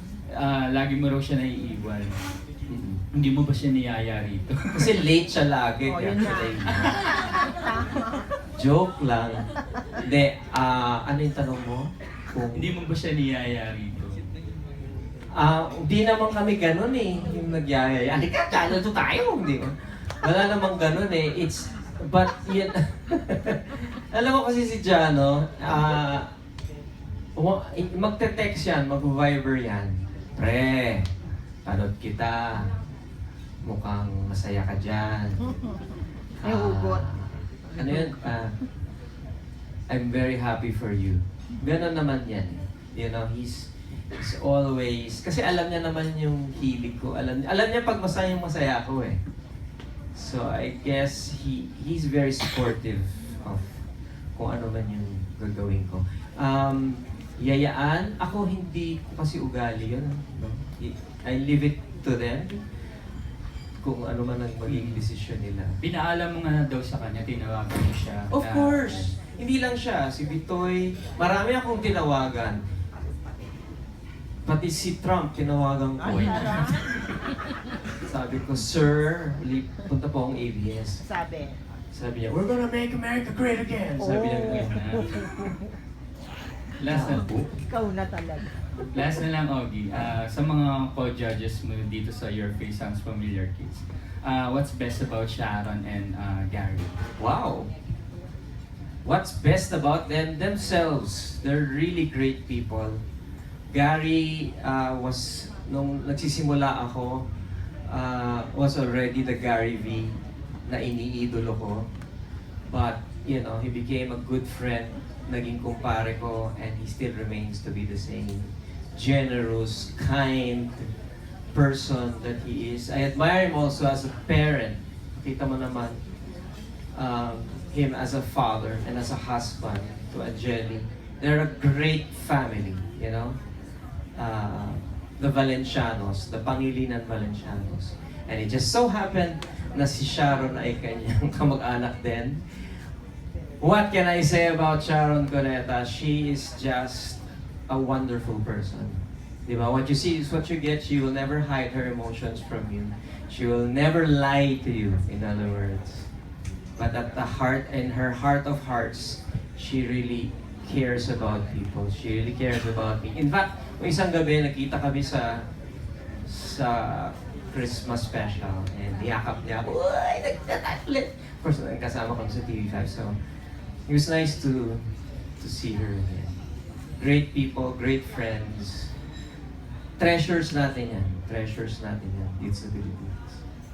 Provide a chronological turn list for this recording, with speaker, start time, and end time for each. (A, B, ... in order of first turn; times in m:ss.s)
0:00.3-0:02.1 A
0:02.7-0:03.0 B
0:03.1-0:04.8 A
0:04.7-0:06.9 B
0:05.8-0:06.7 C
0:08.6-0:09.5 B
0:10.0-0:12.7 B
0:12.5-0:14.2 A
0:15.4-0:26.3 B
0:27.4-0:31.1 B
0:31.6-0:32.8 B
0:33.6-0:35.6 B
0:36.4-0:38.6 B
0:36.4-0:37.0 C
0:37.7-0:38.1 C
0:39.9-0:49.2 B
0:50.1-1:02.6 B
1:03.8-1:05.8 B
1:04.6-1:05.0 A
1:05.8-1:09.1 A
1:08.3-1:12.6 B
1:14.4-1:16.9 B
1:16.0-1:16.6 A
1:16.1-1:16.8 C
1:18.0-1:21.0 B
1:21.0-1:21.6 C
1:21.9-1:25.1 B
1:24.0-1:25.5 C
1:24.5-1:25.1 A
1:26.8-1:27.5 A
1:26.9-1:27.5 B
1:27.6-1:28.5 C
1:28.9-1:37.0 A
1:37.2-1:37.7 B
1:39.0-1:43.0 B
1:43.7-1:47.3 B
1:47.9-1:51.8 B
1:52.7-2:00.9 B
2:01.5-2:06.0 B
2:06.9-2:13.4 B
2:14.2-2:22.8 B
2:23.6-2:36.1 B
2:36.8-2:45.4 B
2:46.2-2:53.2 B
2:53.9-2:54.8 B
2:55.4-2:56.4 B
2:57.0-2:58.9 B
3:00.0-3:03.4 B